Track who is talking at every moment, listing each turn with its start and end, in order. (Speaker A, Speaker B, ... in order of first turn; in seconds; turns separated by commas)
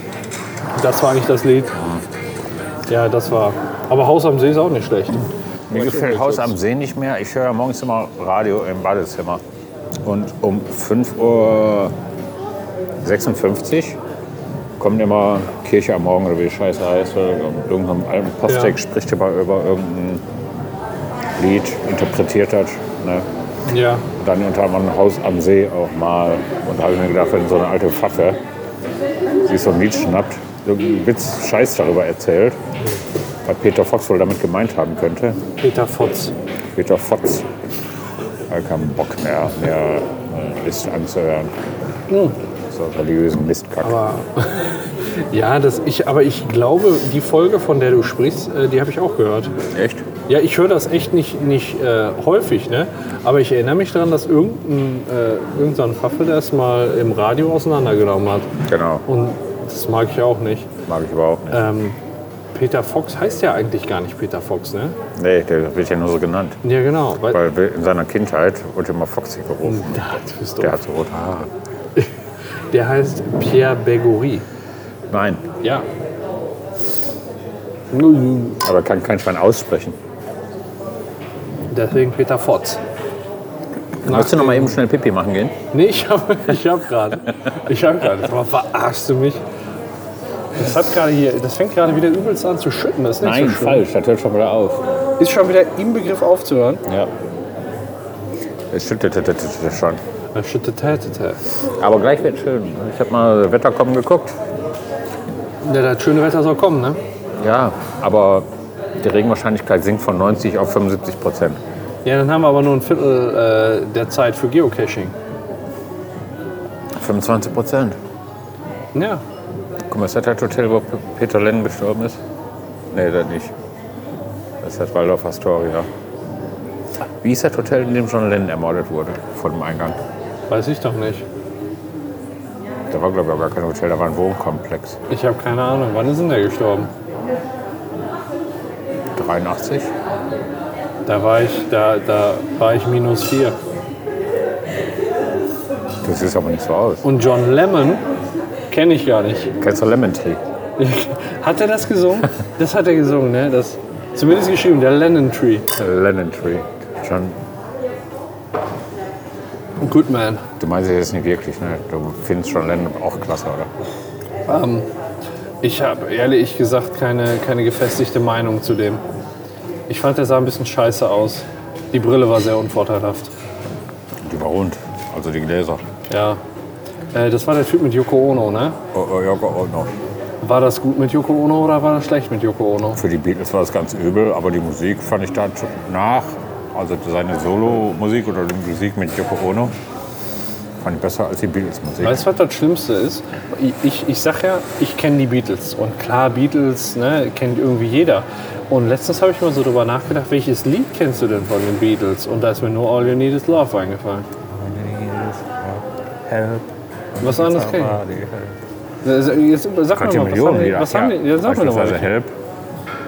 Speaker A: 0.8-1.8, Speaker A: 2.9-6.5, Speaker B: 5.7-9.4, Speaker B: 10.1-11.9, Speaker B: 13.0-14.0, Speaker B: 14.8-20.2, Speaker A: 18.5-18.8, Speaker B: 21.4-23.3, Speaker A: 23.7-24.1, Speaker B: 24.2-28.4, Speaker B: 29.5-32.6, Speaker B: 33.5-35.4, Speaker A: 35.6-36.3, Speaker B: 36.7-37.5, Speaker B: 38.5-41.5, Speaker A: 42.1-42.4, Speaker B: 42.7-44.0, Speaker A: 43.8-49.5, Speaker B: 49.7-50.1, Speaker A: 50.3-58.5, Speaker B: 58.7-59.1, Speaker A: 59.1-60.7, Speaker B: 60.9-61.7, Speaker A: 61.5-62.0, Speaker A: 62.5-65.0, Speaker B: 65.2-66.6, Speaker A: 66.6-67.4, Speaker B: 67.3-70.1, Speaker A: 69.7-70.8, Speaker B: 70.6-71.5, Speaker A: 72.7-74.5, Speaker B: 75.1-75.5, Speaker A: 77.9-78.6, Speaker B: 78.6-80.0, Speaker A: 81.7-82.8, Speaker B: 84.0-85.6, Speaker A: 84.0-84.8, Speaker A: 85.7-89.4, Speaker A: 90.6-93.8, Speaker B: 93.2-94.8, Speaker A: 95.2-96.8, Speaker B: 98.7-100.0, Speaker A: 100.3-101.4, Speaker B: 101.8-104.3, Speaker A: 105.6-107.0, Speaker B: 107.4-108.5, Speaker B: 109.0-111.6, Speaker A: 112.0-115.2, Speaker B: 117.0-118.0, Speaker A: 119.0-119.2, Speaker B: 119.9-122.2, Speaker B: 122.9-123.5, Speaker B: 124.6-125.9, Speaker B: 127.2-130.0, Speaker A: 130.5-131.2, Speaker B: 132.9-135.0, Speaker A: 135.1-136.9, Speaker B: 139.2-139.9, Speaker A: 141.1-143.6, Speaker B: 146.0-147.1, Speaker A: 147.0-148.0, Speaker A: 148.7-149.5, Speaker B: 149.6-150.4, Speaker A: 150.8-155.7, Speaker B: 155.8-157.4, Speaker A: 159.8-160.4, Speaker B: 160.6-163.7, Speaker A: 164.5-164.9, Speaker A: 165.6-169.0, Speaker A: 169.9-173.3, Speaker B: 174.2-175.8, Speaker A: 176.1-176.4, Speaker A: 177.1-178.8, Speaker B: 178.9-179.9, Speaker A: 180.4-183.0, Speaker B: 183.0-189.8, Speaker B: 190.8-192.3, Speaker A: 192.0-204.3, Speaker B: 204.5-208.6, Speaker A: 207.2-208.0, Speaker A: 209.0-212.1, Speaker B: 209.9-212.3